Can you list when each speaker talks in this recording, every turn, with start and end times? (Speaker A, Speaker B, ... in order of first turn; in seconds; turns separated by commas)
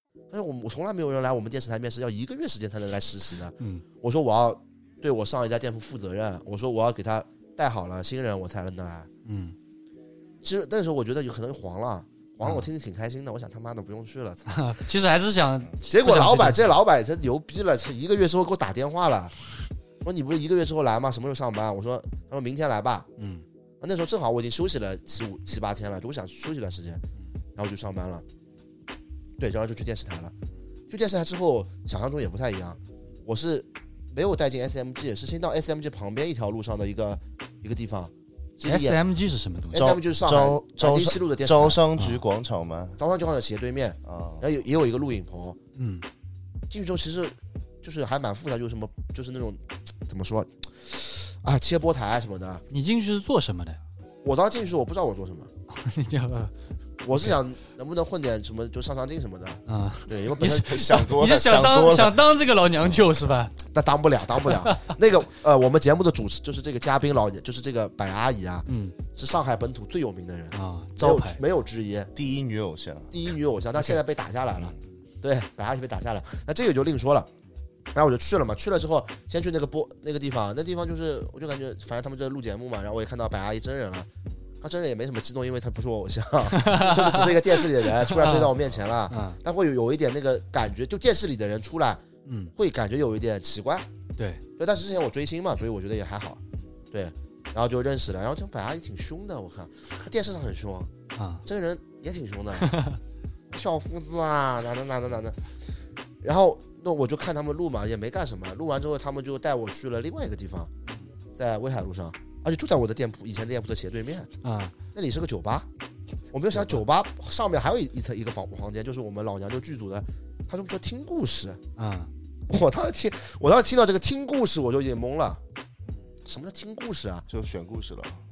Speaker A: 0.3-9.1, Speaker B: 9.2-9.5, Speaker A: 10.4-14.5, Speaker B: 14.5-16.7, Speaker A: 15.9-19.3, Speaker A: 20.0-23.1, Speaker B: 23.2-23.4, Speaker A: 23.8-27.0, Speaker A: 27.6-28.2, Speaker A: 29.4-30.3, Speaker A: 30.9-39.0, Speaker B: 38.6-39.8, Speaker A: 39.7-41.8, Speaker C: 39.7-43.0, Speaker B: 42.0-42.2, Speaker A: 43.0-45.6, Speaker C: 44.0-44.4, Speaker B: 45.7-46.0, Speaker A: 46.7-52.6, Speaker B: 52.7-53.8, Speaker A: 54.2-55.5, Speaker B: 55.7-56.5, Speaker A: 57.0-60.9, Speaker B: 59.7-63.5, Speaker C: 60.5-62.2, Speaker A: 63.7-72.1, Speaker B: 64.5-64.9, Speaker B: 68.7-68.9, Speaker B: 70.5-71.4, Speaker C: 72.1-73.1, Speaker A: 73.1-77.3, Speaker A: 77.9-84.1, Speaker A: 84.6-92.0, Speaker B: 86.5-88.5, Speaker B: 89.1-89.4, Speaker B: 92.2-92.5, Speaker A: 92.5-93.9, Speaker B: 94.2-94.4, Speaker A: 94.6-100.9, Speaker B: 101.2-101.4, Speaker A: 101.4-102.7, Speaker B: 102.6-103.0, Speaker A: 103.5-105.4, Speaker A: 106.2-110.7, Speaker A: 111.3-114.3, Speaker B: 114.4-114.7, Speaker A: 114.9-115.7, Speaker A: 116.3-121.6, Speaker B: 121.8-122.1, Speaker A: 122.5-125.4, Speaker A: 126.2-127.2, Speaker C: 127.3-128.2